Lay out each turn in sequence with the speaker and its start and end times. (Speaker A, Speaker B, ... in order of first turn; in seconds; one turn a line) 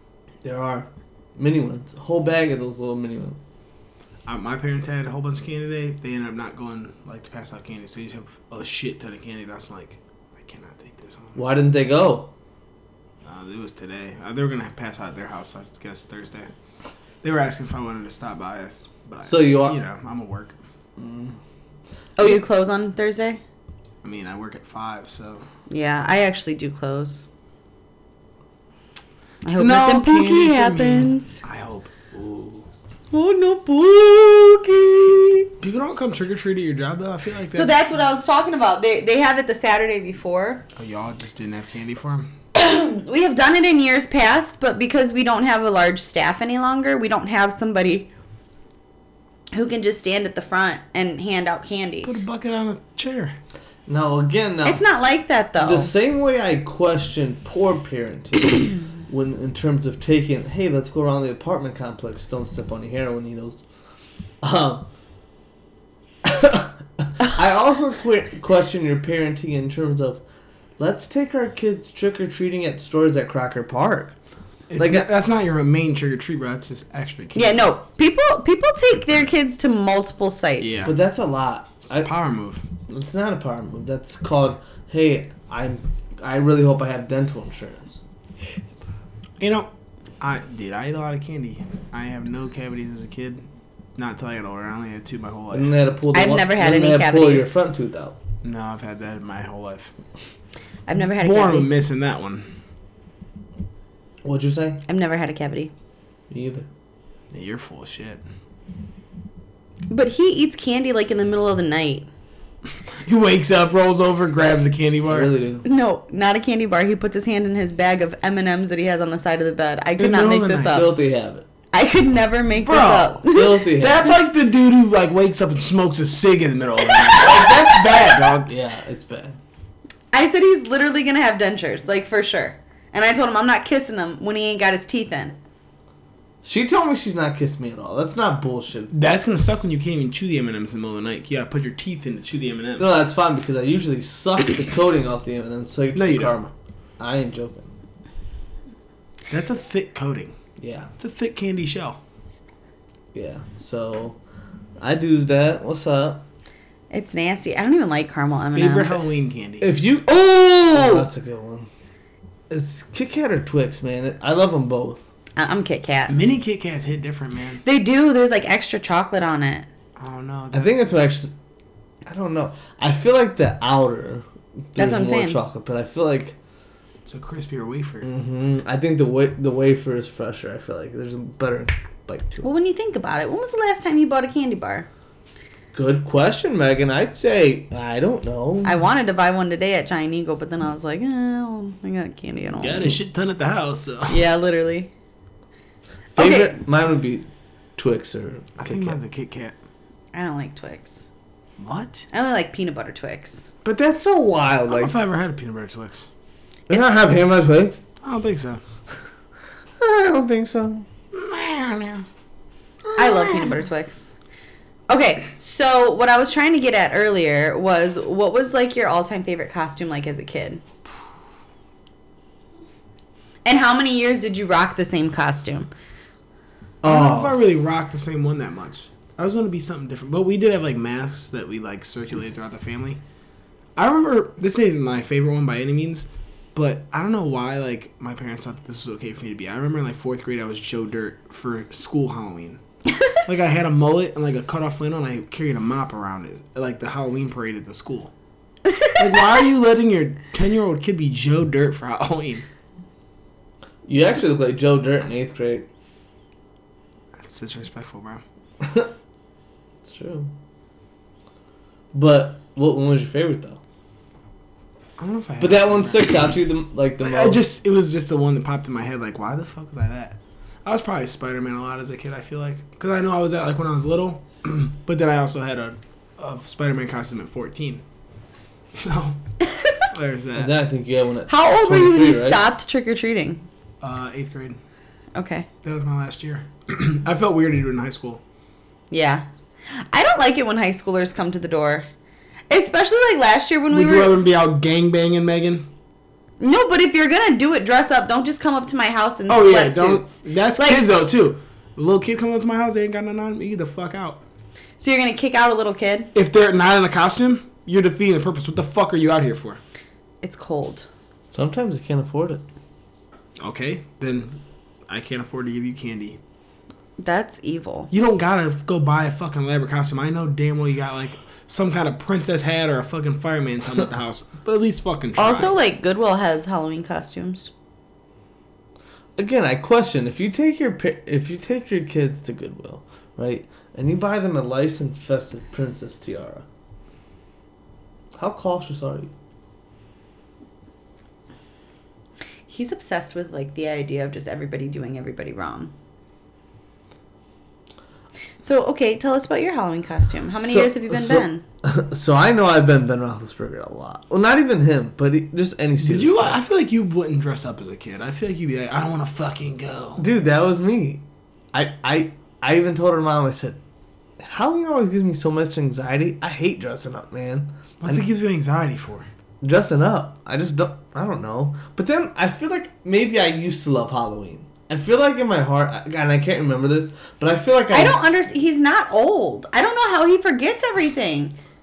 Speaker A: 0.4-3.4
Speaker B: 4.2-11.4
Speaker A: 11.3-12.3
Speaker B: 13.2-16.5
Speaker B: 17.2-20.6
Speaker A: 19.2-19.8
Speaker A: 21.0-21.4
Speaker C: 22.2-23.4
Speaker B: 24.0-25.4
Speaker C: 25.7-27.2
Speaker C: 29.4-31.4
Speaker B: 29.5-32.7
Speaker C: 33.1-35.5
Speaker B: 35.6-37.8
Speaker C: 37.5-40.6
Speaker B: 40.8-42.3
Speaker C: 42.5-48.1
Speaker C: 49.5-52.1
Speaker B: 52.0-53.3
Speaker A: 53.9-54.8
Speaker C: 54.6-55.9
Speaker A: 55.6-63.6
Speaker A: 64.4-64.8
Speaker A: 66.2-70.2
Speaker A: 70.8-74.1
Speaker B: 74.7-77.7
Speaker A: 74.8-75.1
Speaker C: 77.3-80.9
Speaker B: 80.6-81.0
Speaker A: 80.8-82.1
Speaker B: 81.9-82.6
Speaker A: 82.9-88.0
Speaker B: 89.4-89.7
Speaker B: 90.2-93.4
Speaker B: 94.0-95.7
Speaker A: 95.5-98.2
Speaker C: 96.1-97.6
Speaker B: 98.4-99.9
Speaker C: 100.9-101.7
Speaker B: 101.2-102.5
Speaker A: 104.2-104.8
Speaker C: 104.9-105.7
Speaker A: 106.3-106.7
Speaker B: 107.3-108.2
Speaker C: 109.9-112.1
Speaker B: 113.0-115.3
Speaker A: 115.1-115.7
Speaker C: 115.6-120.9
Speaker B: 120.0-120.9
Speaker A: 120.7-121.5
Speaker C: 121.7-123.7
Speaker B: 122.5-128.5
Speaker A: 123.3-124.1
Speaker C: 127.0-127.7
Speaker A: 128.5-129.4
Speaker C: 130.1-135.3
Speaker A: 136.4-138.9
Speaker B: 138.9-142.9
Speaker A: 142.8-147.7
Speaker B: 145.9-146.3
Speaker B: 149.3-150.3
Speaker A: 150.6-150.9
Speaker B: 151.0-152.0
Speaker A: 153.1-154.2
Speaker A: 154.8-156.2
Speaker C: 156.9-159.0
Speaker B: 158.5-159.7
Speaker A: 159.6-161.7
Speaker C: 160.1-161.1
Speaker A: 162.5-165.0
Speaker C: 165.4-166.2
Speaker B: 166.1-167.6
Speaker C: 167.6-169.7
Speaker B: 170.0-170.7
Speaker A: 170.5-171.3
Speaker A: 172.0-176.3
Speaker C: 174.8-175.4
Speaker B: 177.1-178.1
Speaker A: 178.0-182.5
Speaker C: 182.4-184.9
Speaker A: 185.7-188.8
Speaker C: 188.6-192.9
Speaker B: 192.6-194.2
Speaker C: 194.1-194.9
Speaker A: 196.1-199.0
Speaker C: 196.2-196.6
Speaker B: 198.6-199.6
Speaker C: 200.1-201.1
Speaker B: 201.6-202.0
Speaker C: 202.1-203.5
Speaker A: 203.6-204.9
Speaker B: 204.7-206.1
Speaker A: 206.7-207.8
Speaker C: 206.7-206.9
Speaker B: 208.0-208.6
Speaker A: 209.8-210.8
Speaker B: 211.1-212.0
Speaker C: 213.0-214.1
Speaker B: 213.1-213.5
Speaker C: 214.9-220.6
Speaker C: 223.4-225.7
Speaker A: 226.8-227.4
Speaker B: 226.8-233.0
Speaker B: 233.8-242.6
Speaker B: 243.2-248.1
Speaker B: 248.9-252.4
Speaker A: 253.8-255.7
Speaker B: 257.2-258.2
Speaker A: 258.6-258.9
Speaker A: 259.8-260.3
Speaker A: 261.9-263.6
Speaker B: 265.0-266.1
Speaker A: 265.4-267.4
Speaker B: 267.0-277.8
Speaker B: 278.8-279.2
Speaker B: 279.9-280.5
Speaker A: 280.3-282.4
Speaker C: 281.3-283.5
Speaker B: 283.8-284.6
Speaker C: 285.1-285.5
Speaker B: 285.6-288.2
Speaker C: 288.9-291.9
Speaker C: 292.5-294.1
Speaker B: 293.7-295.7
Speaker C: 296.4-300.8
Speaker B: 299.3-304.2
Speaker C: 304.8-306.1
Speaker B: 306.1-309.6
Speaker C: 310.2-310.9
Speaker A: 311.3-312.4
Speaker B: 313.4-316.2
Speaker C: 317.0-317.9
Speaker B: 317.9-325.6
Speaker C: 325.2-327.5
Speaker A: 329.2-336.4
Speaker A: 338.1-339.1
Speaker C: 342.5-345.7
Speaker C: 348.4-351.4
Speaker A: 350.4-356.4
Speaker B: 355.8-360.0
Speaker A: 360.0-363.6
Speaker A: 364.2-368.0
Speaker B: 367.8-369.1
Speaker A: 369.4-378.0
Speaker C: 377.7-381.4